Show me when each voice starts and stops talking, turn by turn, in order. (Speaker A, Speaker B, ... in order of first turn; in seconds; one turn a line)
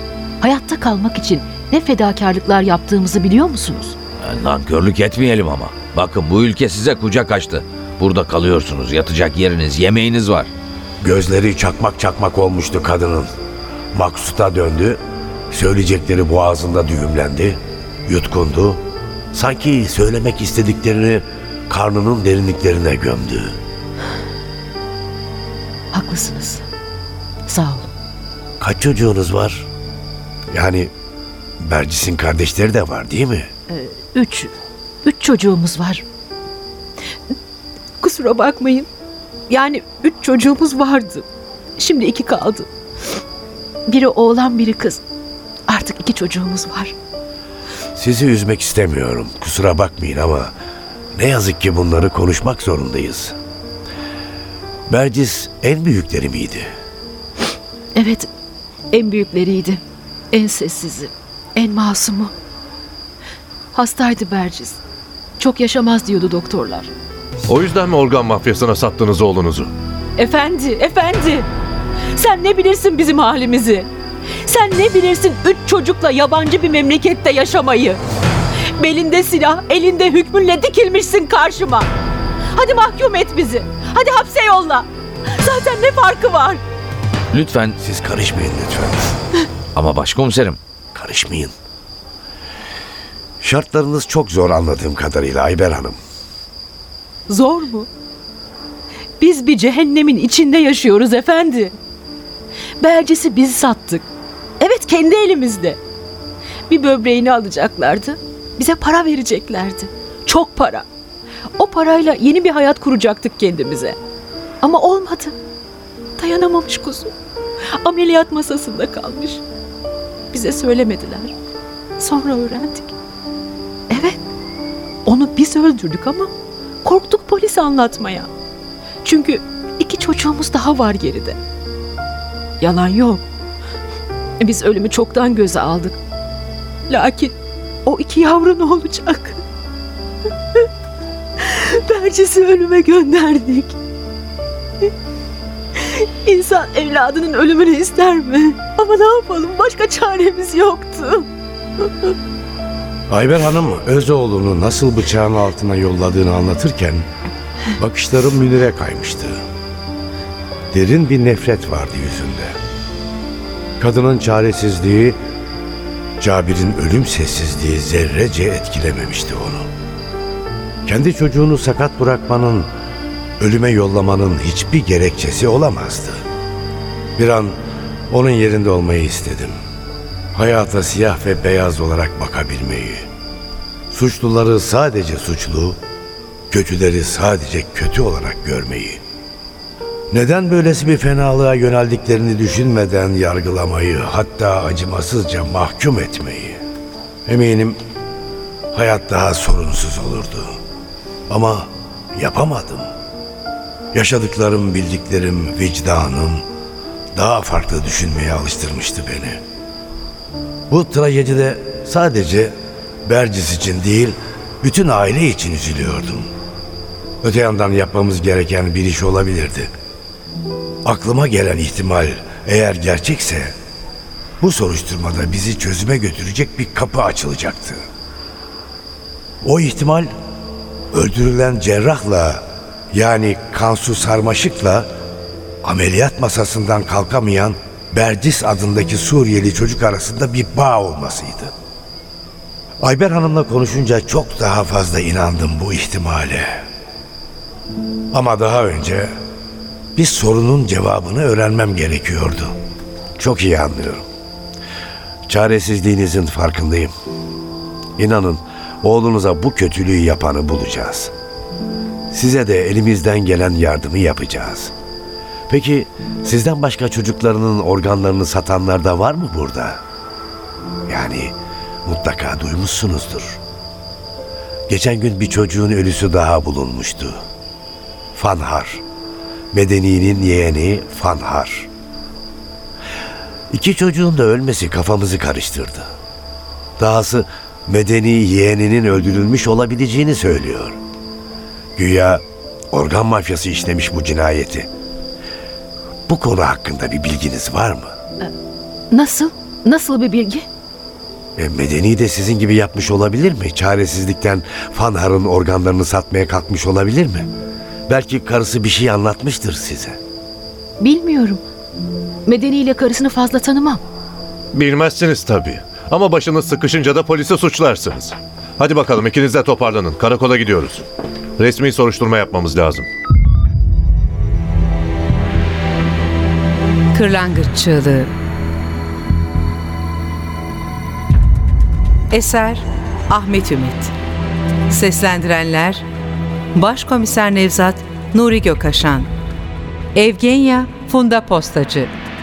Speaker A: 0.4-4.0
Speaker B: 4.2-10.5
Speaker C: 11.0-13.3
Speaker C: 13.9-15.0
Speaker C: 15.5-18.8
Speaker C: 19.3-23.6
Speaker A: 25.9-26.6
Speaker A: 27.5-27.9
Speaker C: 28.6-29.7
Speaker C: 30.5-30.9
Speaker C: 31.6-33.5
Speaker A: 33.7-34.5
Speaker A: 35.0-36.0
Speaker A: 38.0-38.9
Speaker A: 39.5-41.2
Speaker A: 41.8-42.7
Speaker A: 43.9-45.0
Speaker A: 45.7-46.9
Speaker C: 48.0-50.5
Speaker C: 51.1-53.4
Speaker C: 54.9-56.7
Speaker A: 57.9-58.3
Speaker A: 58.9-62.3
Speaker A: 63.7-64.8
Speaker A: 65.4-66.9
Speaker D: 67.5-69.7
Speaker A: 70.2-71.5
Speaker A: 72.2-73.9
Speaker A: 74.5-78.0
Speaker A: 78.8-81.9
Speaker A: 82.5-86.6
Speaker B: 87.3-87.7
Speaker C: 87.8-89.1
Speaker B: 89.7-90.6
Speaker C: 90.9-91.5
Speaker C: 93.4-96.0
Speaker A: 97.3-97.9
Speaker A: 99.2-101.8
Speaker A: 102.8-104.1
Speaker A: 104.6-105.8
Speaker A: 106.7-110.8
Speaker A: 111.6-114.0
Speaker A: 114.6-115.3
Speaker A: 116.2-117.1
Speaker A: 117.8-119.4
Speaker A: 120.3-121.3
Speaker A: 122.0-122.9
Speaker A: 123.9-124.2
Speaker A: 125.0-126.3
Speaker A: 126.8-128.3
Speaker A: 129.0-131.4
Speaker A: 132.6-133.2
Speaker A: 134.4-136.0
Speaker A: 136.9-139.4
Speaker A: 141.4-143.7
Speaker A: 145.9-151.2
Speaker C: 153.1-157.0
Speaker C: 157.8-159.4
Speaker C: 160.7-162.6
Speaker C: 163.8-165.2
Speaker C: 166.2-169.7
Speaker C: 170.8-172.7
Speaker C: 173.4-176.2
Speaker C: 177.2-177.6
Speaker C: 178.1-179.5
Speaker C: 180.3-183.1
Speaker C: 183.9-185.8
Speaker C: 186.5-189.0
Speaker C: 190.1-196.6
Speaker C: 197.3-197.8
Speaker C: 198.7-200.6
Speaker C: 201.3-202.9
Speaker C: 203.9-206.4
Speaker C: 207.1-209.4
Speaker C: 210.7-212.5
Speaker C: 213.1-216.3
Speaker C: 217.2-219.7
Speaker C: 220.8-223.5
Speaker C: 224.4-227.8
Speaker C: 229.4-230.1
Speaker C: 230.9-234.9
Speaker C: 235.6-241.5
Speaker C: 242.8-246.6
Speaker C: 248.1-249.1
Speaker C: 249.9-252.5
Speaker C: 253.2-254.0
Speaker C: 255.3-256.9
Speaker C: 258.0-261.1
Speaker C: 262.1-264.7
Speaker C: 265.5-269.8
Speaker C: 270.9-273.4
Speaker C: 274.7-277.2
Speaker C: 278.1-278.8
Speaker C: 279.5-281.7
Speaker C: 283.5-285.9
Speaker C: 286.8-290.8
Speaker C: 291.8-294.7
Speaker C: 296.1-297.9
Speaker A: 298.9-300.4
Speaker C: 301.4-307.3
Speaker C: 307.9-310.0
Speaker A: 310.8-311.4
Speaker A: 312.2-313.8
Speaker D: 314.5-320.8
Speaker D: 321.4-322.9
Speaker E: 326.9-328.1
Speaker E: 332.1-333.9
Speaker E: 334.7-335.8
Speaker E: 336.5-339.1
Speaker E: 339.9-341.9